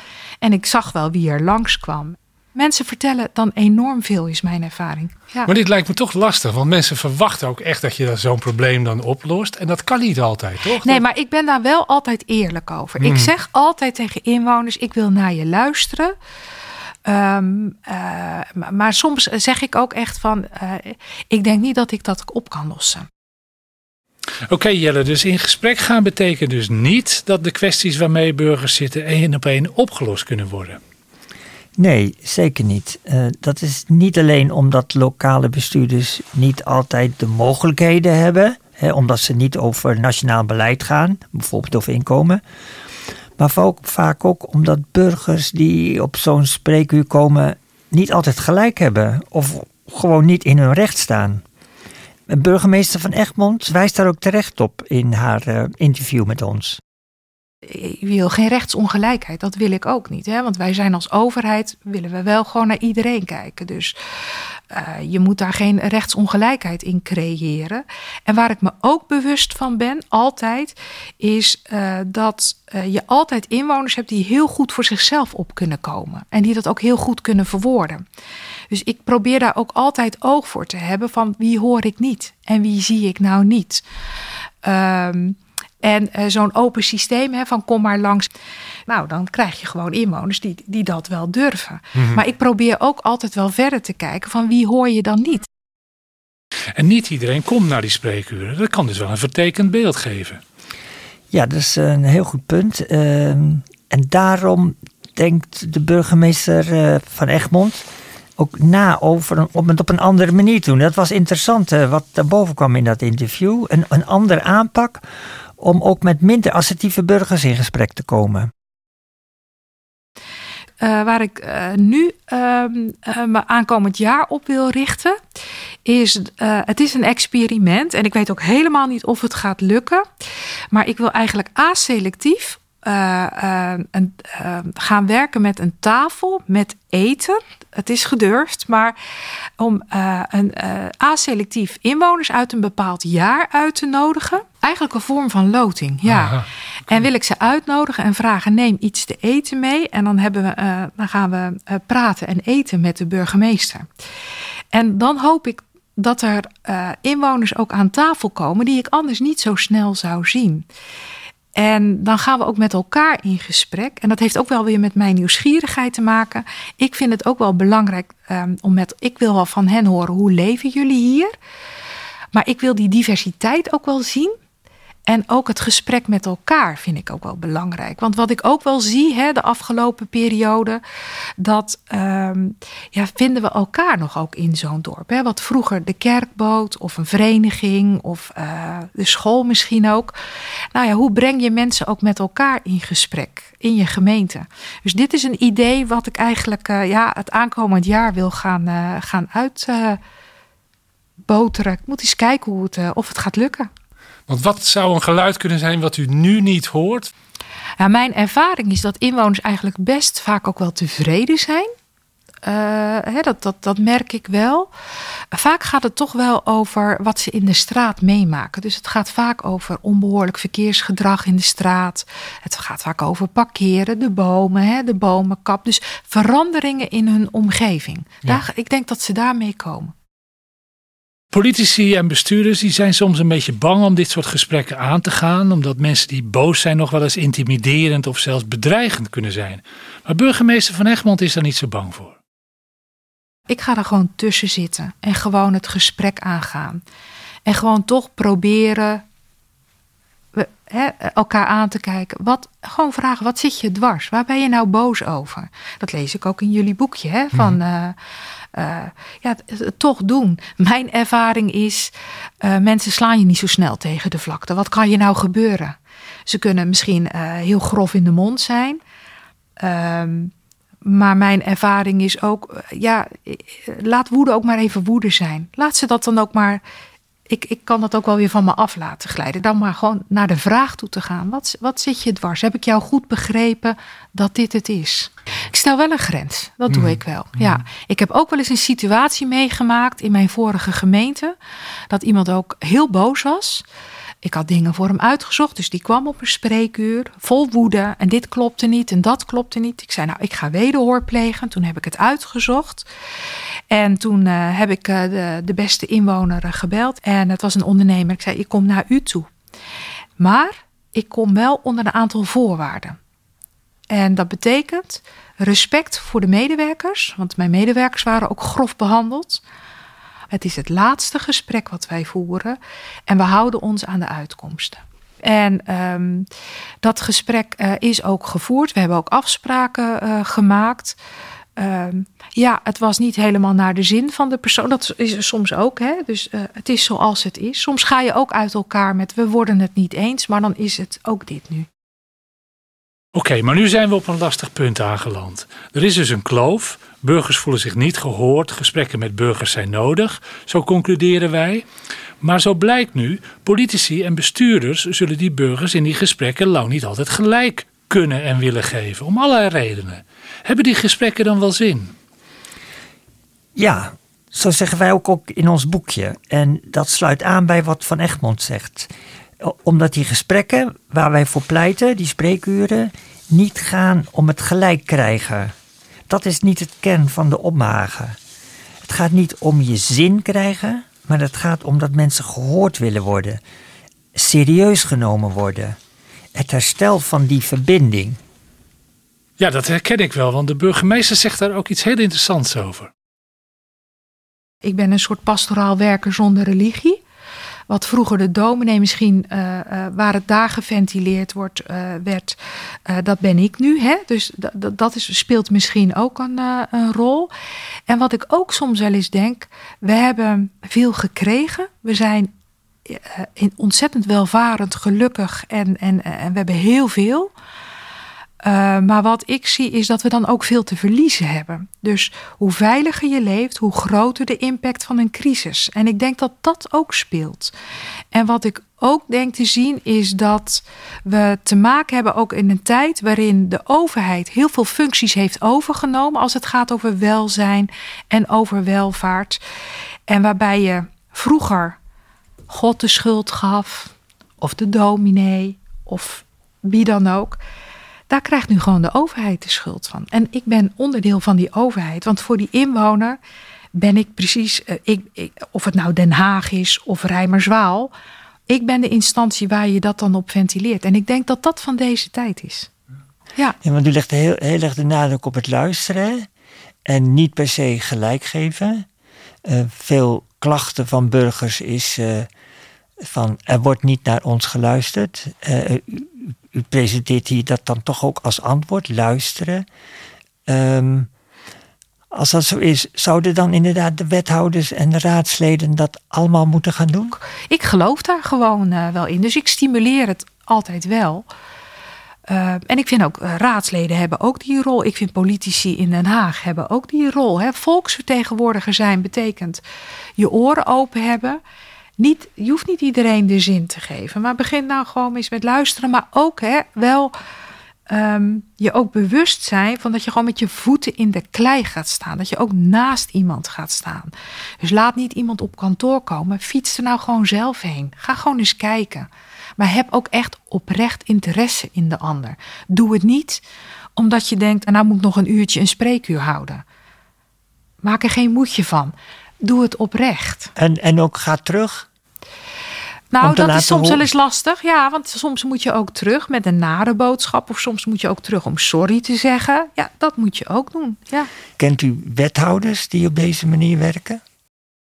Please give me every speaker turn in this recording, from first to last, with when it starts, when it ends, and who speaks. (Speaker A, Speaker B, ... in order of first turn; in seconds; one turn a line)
Speaker A: 0.4-5.5
Speaker B: 5.5-11.0
Speaker A: 10.8-16.1
Speaker B: 13.0-13.3
Speaker A: 17.1-23.1
Speaker B: 24.5-30.8
Speaker C: 31.8-42.4
Speaker C: 43.4-51.4
Speaker C: 52.3-56.8
Speaker A: 57.6-64.0
Speaker A: 64.7-78.0
Speaker A: 78.7-83.8
Speaker A: 84.6-88.3
Speaker A: 88.9-95.5
Speaker B: 96.8-100.4
Speaker C: 101.3-115.0
Speaker C: 115.6-118.5
Speaker A: 120.8-125.2
Speaker A: 125.8-130.1
Speaker A: 130.7-139.0
Speaker A: 139.6-153.9
Speaker B: 146.1-146.4
Speaker A: 154.7-160.6
Speaker A: 161.6-171.3
Speaker A: 172.3-174.4
Speaker A: 175.1-180.8
Speaker A: 181.4-190.2
Speaker A: 190.7-200.0
Speaker A: 201.3-203.7
Speaker B: 204.3-207.1
Speaker A: 207.8-211.7
Speaker A: 212.4-214.7
Speaker A: 215.3-229.9
Speaker B: 231.3-242.2
Speaker A: 243.5-246.8
Speaker A: 247.5-249.0
Speaker A: 250.3-258.0
Speaker A: 258.5-265.8
Speaker A: 266.3-268.8
Speaker A: 269.6-270.3
Speaker A: 270.8-276.6
Speaker A: 277.3-291.4
Speaker A: 291.9-293.6
Speaker A: 294.2-302.9
Speaker A: 303.7-309.3
Speaker A: 310.2-313.0
Speaker A: 313.9-319.4
Speaker A: 320.3-326.3
Speaker A: 326.8-331.0
Speaker A: 331.6-341.7
Speaker B: 343.1-351.6
Speaker B: 352.2-362.0
Speaker C: 363.6-375.5
Speaker C: 376.1-378.2
Speaker C: 378.8-383.4
Speaker C: 384.1-385.8
Speaker C: 386.3-388.2
Speaker B: 389.4-392.9
Speaker A: 394.6-397.0
Speaker A: 397.7-407.3
Speaker A: 407.9-412.3
Speaker A: 412.9-417.3
Speaker A: 418.4-427.5
Speaker A: 428.1-439.4
Speaker A: 440.1-441.8
Speaker A: 442.5-447.4
Speaker A: 448.1-453.2
Speaker A: 453.7-457.9
Speaker A: 458.5-462.7
Speaker C: 463.6-466.3
Speaker C: 466.9-468.9
Speaker C: 469.4-472.3
Speaker C: 473.0-479.7
Speaker C: 480.5-481.1
Speaker C: 482.1-487.2
Speaker A: 487.5-491.3
Speaker A: 492.3-499.6
Speaker A: 500.2-501.4
Speaker A: 502.0-507.1
Speaker A: 507.9-523.4
Speaker A: 524.0-526.6
Speaker A: 527.8-530.5
Speaker C: 530.6-531.9
Speaker A: 533.1-541.3
Speaker C: 533.2-534.0
Speaker C: 541.6-544.2